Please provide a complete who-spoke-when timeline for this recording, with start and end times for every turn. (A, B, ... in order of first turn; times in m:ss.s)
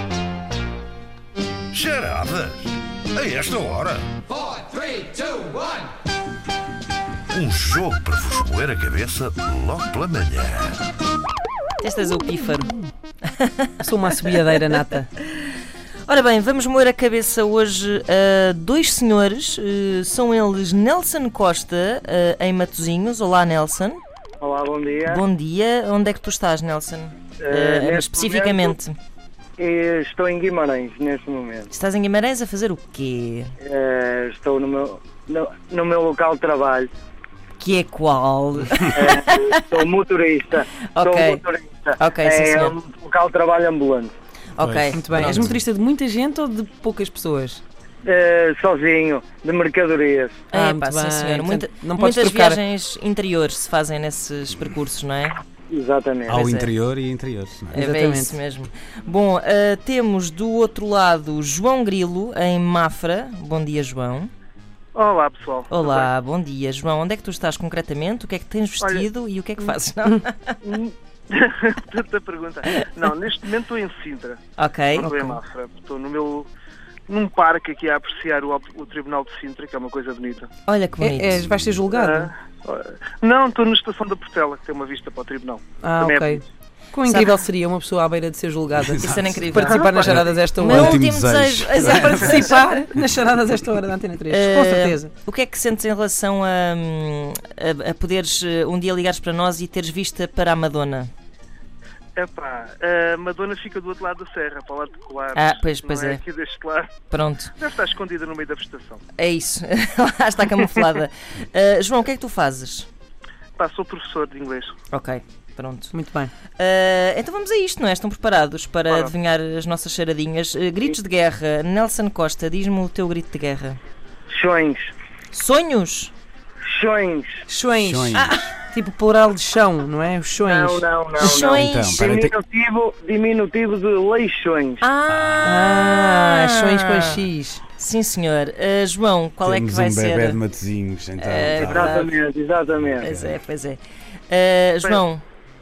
0:01.7-0:04.0 A
0:07.3-0:10.8 A
0:11.8-0:12.8 B
0:13.3-0:13.7 B
0:13.8-0:15.1 C
0:16.0-0:24.0 B
0:24.4-0:25.2 D
0:25.1-0:29.0 B
0:27.4-0:28.8 D
0:29.6-0:31.7 D
0:31.7-0:33.5 B
0:33.6-0:36.9 D
0:37.6-0:39.8 B
0:38.9-0:44.1 D
0:40.9-0:41.4 B
0:42.0-0:42.8 B
0:44.6-0:45.6 B
0:44.6-0:45.5 E
0:44.9-0:47.6 C
0:48.0-0:50.4 D
0:50.5-0:55.4 B
0:50.5-0:52.6 C
0:55.7-0:56.4 D
0:56.3-0:56.7 B
0:56.3-0:57.8 E
0:57.7-1:04.3 B
0:57.7-0:58.4 C
1:05.0-1:06.1 F
1:05.7-1:10.6 B
1:08.8-1:09.1 F
1:10.6-1:14.4 F
1:14.6-1:15.2 B
1:15.0-1:16.5 F
1:15.0-1:15.4 C
1:17.1-1:20.5 F
1:20.7-1:21.5 B
1:21.0-1:22.3 C
1:21.9-1:26.4 F
1:25.8-1:26.4 C
1:26.9-1:31.1 C
1:27.1-1:27.3 B
1:28.8-1:32.5 E
1:29.0-1:32.6 B
1:29.7-1:30.3 F
1:31.8-1:35.1 C
1:34.3-1:41.1 B
1:42.2-1:46.9 F
1:45.4-1:46.2 B
1:47.1-1:47.5 B
1:47.6-1:49.0 F
1:49.2-1:52.9 B
1:53.6-1:54.8 F
1:54.9-1:55.9 B
1:55.9-1:56.3 C
1:56.6-2:03.8 B
2:04.3-2:04.9 D
2:05.3-2:06.1 B
2:06.6-2:07.4 D
2:07.5-2:10.9 C
2:07.8-2:08.5 E
2:08.2-2:08.4 B
2:10.4-2:14.8 D
2:11.2-2:11.9 B
2:11.6-2:12.3 E
2:14.8-2:17.0 B
2:15.1-2:15.7 E
2:15.4-2:17.6 C
2:17.8-2:20.4 B
2:19.4-2:22.1 E
2:21.2-2:22.1 B
2:21.6-2:23.1 D
2:22.8-2:23.4 E
2:23.0-2:25.2 B